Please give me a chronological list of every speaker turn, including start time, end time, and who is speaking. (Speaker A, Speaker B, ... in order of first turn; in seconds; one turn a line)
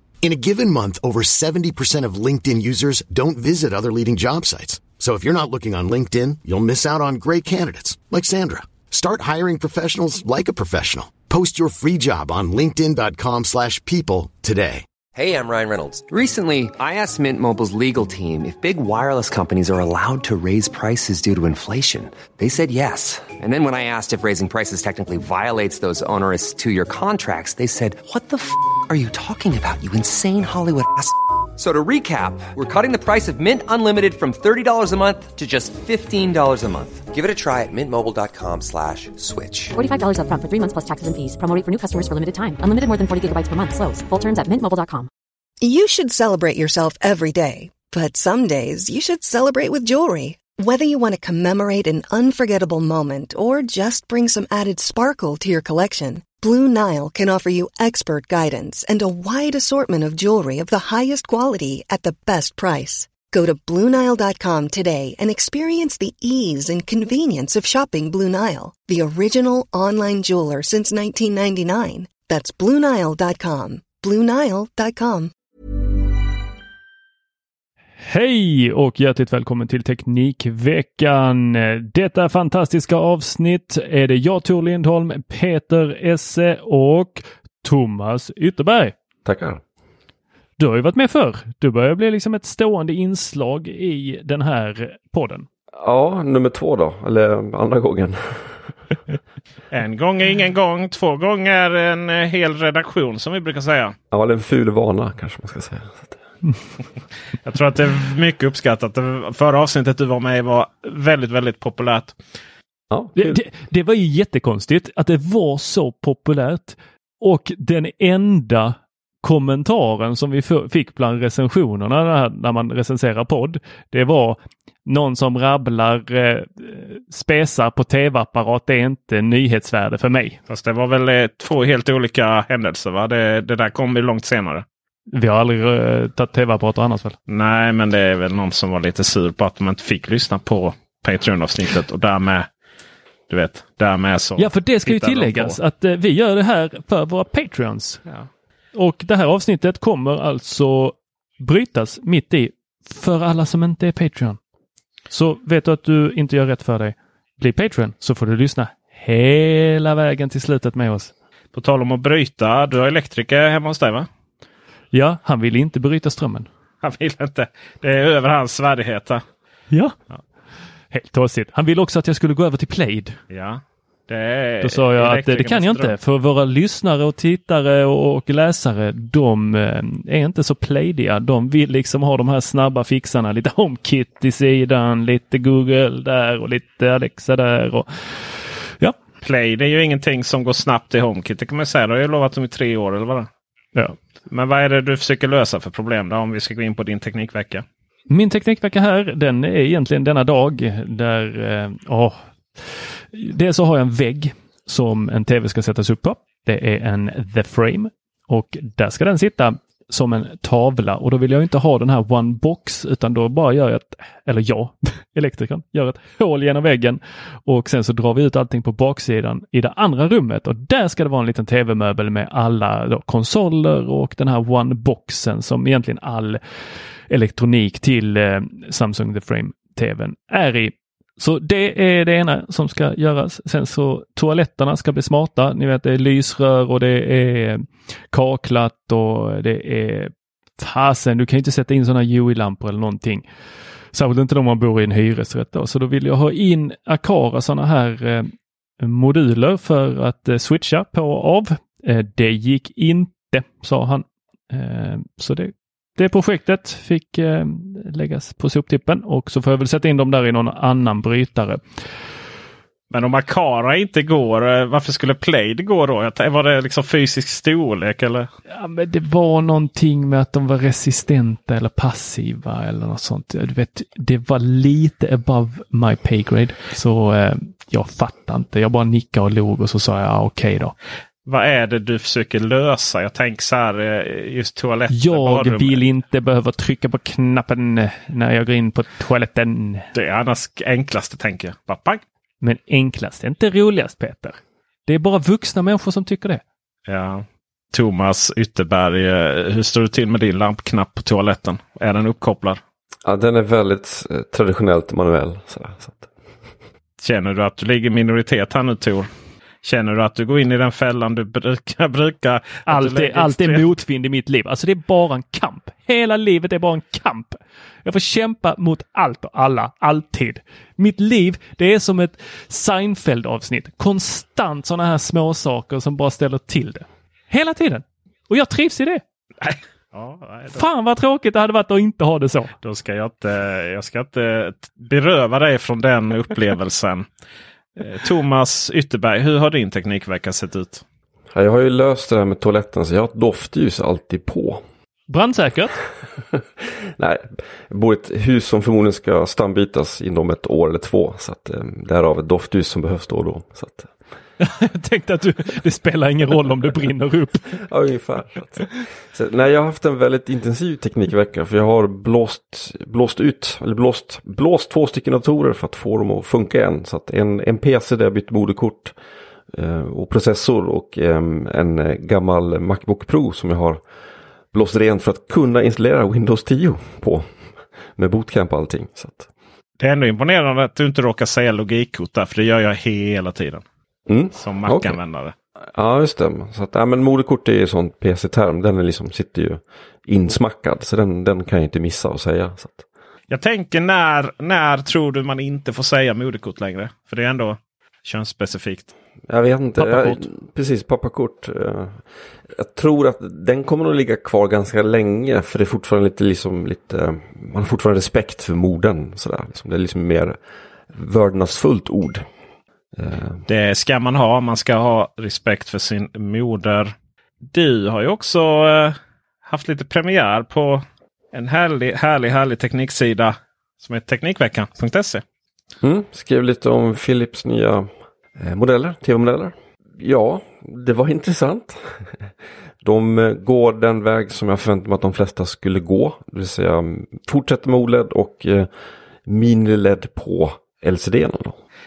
Speaker A: 0.2-14.8
Speaker B: 15.1-39.8
Speaker C: 39.8-45.1
Speaker D: 45.6-75.3
Speaker E: 78.0-89.0
Speaker F: 89.2-89.6
Speaker E: 90.6-95.5
Speaker F: 95.8-98.6
Speaker G: 99.7-103.9
Speaker F: 104.1-106.2
Speaker G: 107.4-112.2
Speaker F: 112.9-113.4
Speaker E: 113.1-130.4
Speaker G: 130.5-134.6
Speaker E: 135.1-137.2
Speaker G: 137.3-142.5
Speaker G: 143.3-145.6
Speaker E: 144.4-148.0
Speaker E: 148.7-154.4
Speaker E: 155.1-161.1
Speaker G: 161.5-164.1
Speaker E: 164.9-166.5
Speaker G: 166.8-169.2
Speaker E: 170.9-173.2
Speaker G: 173.3-175.9
Speaker E: 174.6-188.9
Speaker G: 189.2-193.3
Speaker G: 194.3-197.6
Speaker E: 198.1-226.4
Speaker E: 227.1-243.2
Speaker E: 243.9-261.6
Speaker G: 262.9-268.3
Speaker E: 268.5-280.7
Speaker G: 281.3-285.8
Speaker E: 284.9-289.9
Speaker G: 289.9-292.0
Speaker E: 292.4-296.4
Speaker G: 296.9-302.6
Speaker F: 303.0-306.1
Speaker G: 307.0-309.1
Speaker G: 309.6-313.6
Speaker E: 312.7-329.0
Speaker G: 329.4-330.6
Speaker E: 330.5-332.5
Speaker G: 332.6-337.0
Speaker G: 337.8-340.8
Speaker F: 341.3-344.6
Speaker E: 345.1-345.8
Speaker F: 347.0-353.9
Speaker E: 354.4-357.5
Speaker F: 357.6-368.9
Speaker F: 369.5-373.8
Speaker F: 374.5-377.2
Speaker F: 377.9-379.3
Speaker G: 379.8-383.6
Speaker F: 384.1-385.0
Speaker G: 384.3-385.3
Speaker F: 385.7-392.8
Speaker G: 393.3-398.9
Speaker F: 399.3-410.4
Speaker E: 399.8-400.2
Speaker F: 410.9-412.2
Speaker F: 412.9-413.4
Speaker G: 413.5-416.9
Speaker G: 417.5-418.9
Speaker G: 419.4-420.8
Speaker G: 421.3-425.2
Speaker F: 425.8-431.8
Speaker F: 432.8-438.7
Speaker F: 439.2-441.6